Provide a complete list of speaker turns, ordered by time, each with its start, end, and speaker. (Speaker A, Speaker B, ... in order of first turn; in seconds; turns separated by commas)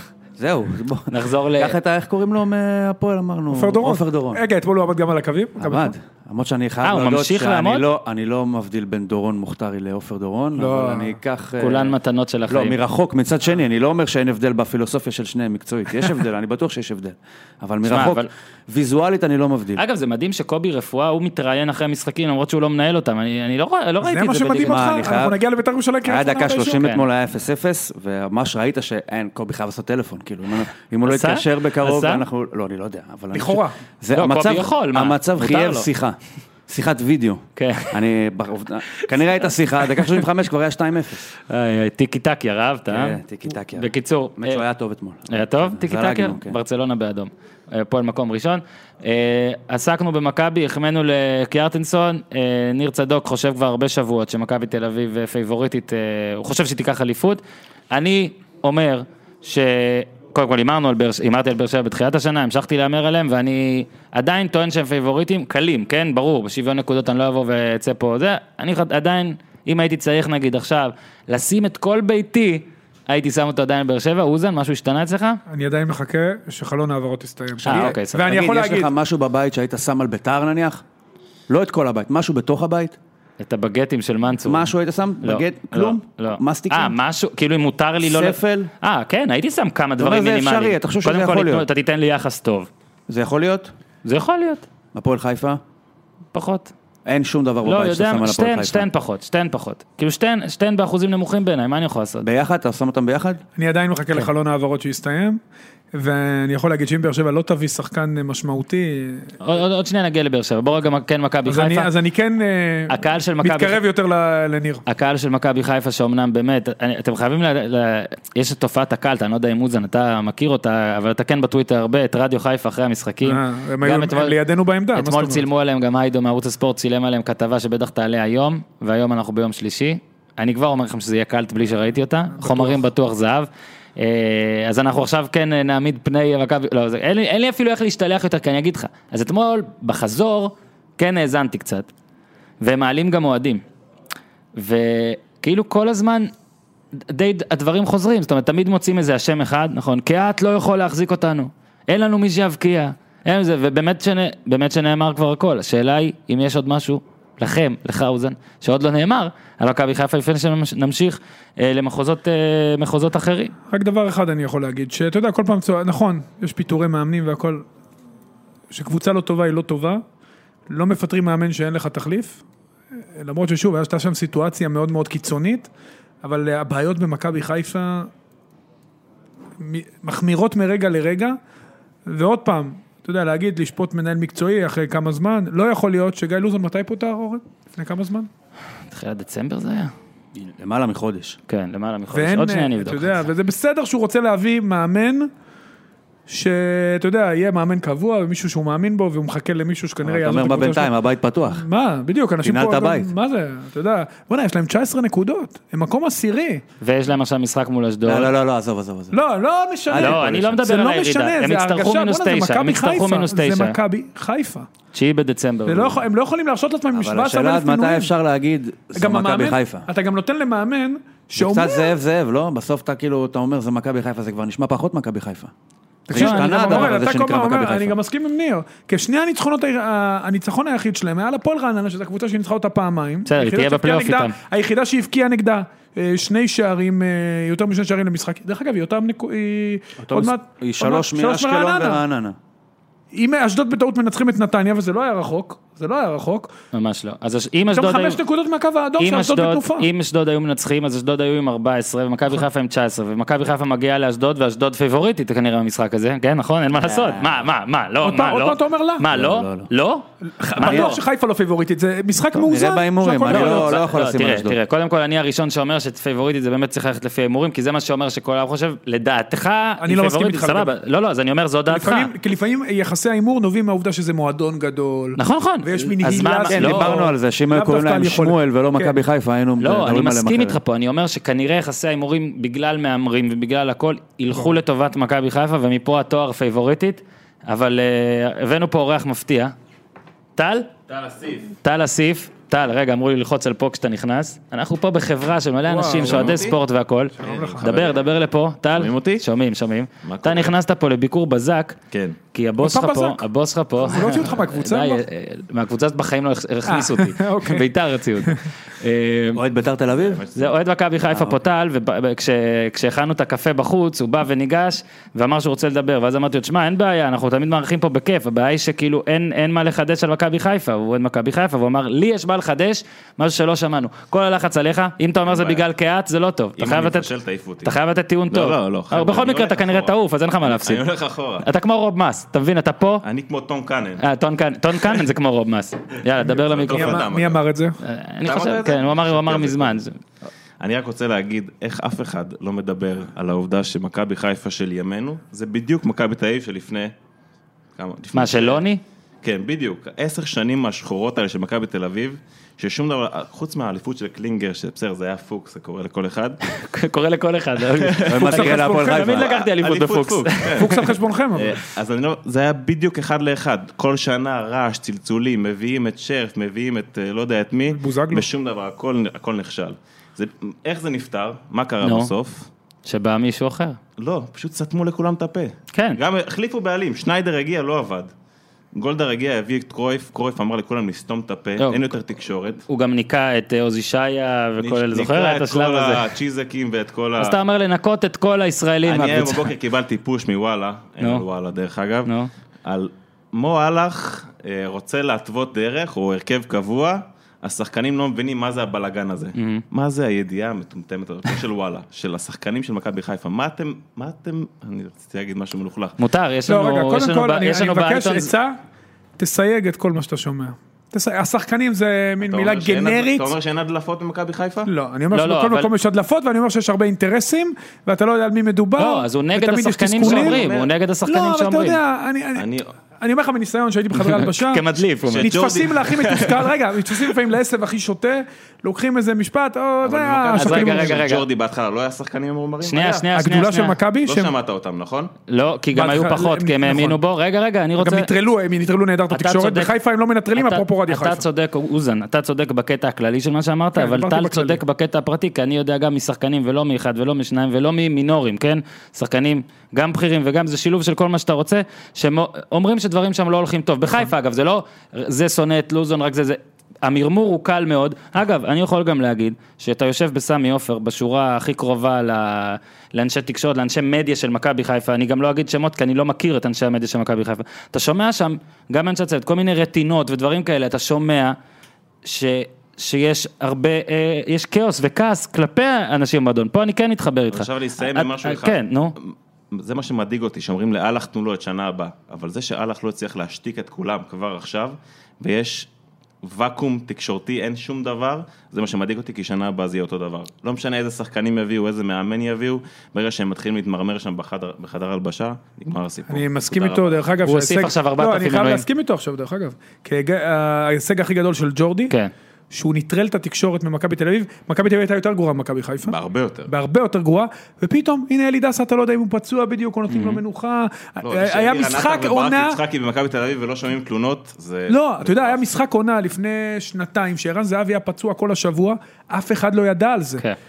Speaker A: 0.4-4.4, Speaker B: 1.1-1.8, Speaker C: 3.5-5.9, Speaker A: 5.6-11.9, Speaker B: 6.8-7.8, Speaker C: 10.6-11.2, Speaker B: 11.6-12.8, Speaker A: 12.5-19.8, Speaker B: 17.9-18.3, Speaker B: 19.8-25.0, Speaker C: 24.0-26.8, Speaker A: 24.6-25.4, Speaker A: 26.0-36.2, Speaker B: 26.8-27.0, Speaker B: 31.1-32.2, Speaker C: 33.3-33.7, Speaker B: 34.1-35.9, Speaker A: 36.7-41.3, Speaker B: 37.5-38.0, Speaker B: 41.5-43.2, Speaker A: 42.9-46.6, Speaker B: 43.7-44.6, Speaker B: 45.3-75.4, Speaker C: 75.5-78.9, Speaker B: 77.6-78.3, Speaker A: 77.7-80.8, Speaker A: 81.5-83.0, Speaker B: 83.4-84.7, Speaker A: 84.4-87.0, Speaker B: 85.2-92.7, Speaker A: 88.0-88.7, Speaker A: 90.0-91.7, Speaker A: 93.1-93.7, Speaker B: 94.0-94.7, Speaker A: 94.9-95.6, Speaker B: 96.3-96.7, Speaker A: 97.0-98.8, Speaker B: 97.6-102.2, Speaker A: 102.2-103.4, Speaker C: 103.5-105.4, Speaker C: 105.9-109.3, Speaker B: 109.4-111.9, Speaker C: 111.5-114.8, Speaker B: 112.9-113.8, Speaker B: 114.8-124.3, Speaker C: 123.2-125.4, Speaker B: 124.9-141.9, Speaker C: 132.4-132.8, Speaker B: 142.6-143.6, Speaker B: 144.6-146.3, Speaker B: 147.1-163.5, Speaker C: 163.7-167.6, Speaker C: 168.7-170.0, Speaker C: 170.7-172.4, Speaker C: 173.2-175.7, Speaker C: 176.2-178.1, Speaker C: 179.6-181.4, Speaker C: 182.1-188.3, Speaker B: 188.9-189.9, Speaker A: 190.3-191.4, Speaker B: 191.5-193.2, Speaker C: 192.1-195.3, Speaker C: 196.3-200.9, Speaker A: 200.0-201.6, Speaker C: 201.5-206.6, Speaker A: 202.4-203.1, Speaker B: 206.8-208.3, Speaker A: 208.1-209.2, Speaker C: 209.1-214.7, Speaker A: 209.9-210.6, Speaker B: 209.9-213.8, Speaker B: 214.9-216.0, Speaker C: 215.7-218.1, Speaker A: 216.9-219.9, Speaker C: 218.9-221.9, Speaker A: 221.3-225.5, Speaker C: 226.1-242.0, Speaker A: 226.1-227.9, Speaker B: 226.1-226.9, Speaker B: 233.2-234.3, Speaker A: 240.0-242.3, Speaker C: 243.1-246.5, Speaker B: 246.7-248.2, Speaker C: 247.7-249.9, Speaker B: 249.0-261.0, Speaker A: 256.8-257.4, Speaker C: 258.0-259.1, Speaker A: 259.1-259.7, Speaker C: 260.4-263.8, Speaker A: 260.6-261.0, Speaker A: 262.3-264.6, Speaker B: 263.2-272.1, Speaker C: 269.8-270.7, Speaker C: 271.7-279.0, Speaker B: 275.1-276.9, Speaker A: 276.5-280.6, Speaker B: 279.6-289.5, Speaker B: 290.4-290.7, Speaker D: 290.9-291.5, Speaker B: 291.6-301.8, Speaker C: 295.7-296.5, Speaker D: 295.9-296.6, Speaker C: 297.2-297.7, Speaker D: 297.2-298.0, Speaker D: 298.8-299.2, Speaker D: 300.0-300.5, Speaker D: 301.9-302.2, Speaker B: 302.3-309.4, Speaker C: 302.6-303.2, Speaker C: 303.8-305.0, Speaker C: 306.7-307.6, Speaker A: 309.3-310.2, Speaker D: 309.9-310.6, Speaker B: 310.3-327.1, Speaker A: 311.1-311.4, Speaker D: 325.2-325.6, Speaker D: 326.6-327.8, Speaker B: 327.6-330.8, Speaker D: 328.3-331.5, Speaker B: 331.4-333.0, Speaker D: 333.0-334.0, Speaker B: 334.0-337.0, Speaker D: 336.2-337.4, Speaker C: 336.7-337.8, Speaker B: 337.8-339.9, Speaker D: 338.2-339.8, Speaker D: 340.6-346.9, Speaker D: 347.8-348.6, Speaker B: 348.1-348.8, Speaker D: 349.2-356.4, Speaker B: 356.5-360.9, Speaker D: 357.7-372.5, Speaker A: 358.0-359.4, Speaker C: 358.5-358.9, Speaker C: 360.6-361.6, Speaker C: 367.7-368.3, Speaker B: 371.8-372.1, Speaker B: 372.9-373.8, Speaker D: 374.0-378.1, Speaker B: 375.7-376.0, Speaker D: 378.7-382.6, Speaker B: 381.6-381.9, Speaker B: 382.7-386.1, Speaker D: 384.6-387.4, Speaker B: 387.2-389.5, Speaker D: 388.8-392.1, Speaker B: 392.0-392.3, Speaker D: 392.6-406.0, Speaker B: 399.4-399.6, Speaker B: 406.0-408.3, Speaker C: 406.5-408.6, Speaker C: 409.2-413.3, Speaker D: 412.2-414.7, Speaker C: 414.6-420.4, Speaker B: 415.1-415.7, Speaker B: 418.8-421.8, Speaker D: 420.0-420.7, Speaker C: 421.1-422.5, Speaker D: 422.4-422.7, Speaker C: 423.0-424.6, Speaker B: 423.9-425.4, Speaker D: 425.1-427.1, Speaker C: 425.2-431.0, Speaker D: 429.8-433.1, Speaker B: 430.3-431.2, Speaker B: 432.6-433.8, Speaker C: 433.1-434.3, Speaker D: 434.0-435.1, Speaker B: 435.3-438.1, Speaker C: 435.7-437.0, Speaker C: 437.8-441.2, Speaker B: 439.1-439.7, Speaker B: 440.3-471.4, Speaker C: 443.8-444.6, Speaker B: 472.0-478.9, Speaker D: 477.3-485.7, Speaker D: 486.2-497.0, Speaker C: 496.1-501.9, Speaker B: 497.2-498.6, Speaker C: 502.5-506.0, Speaker D: 505.8-506.5, Speaker C: 506.5-512.6, Speaker B: 509.9-510.2, Speaker D: 511.0-515.4, Speaker C: 514.7-520.2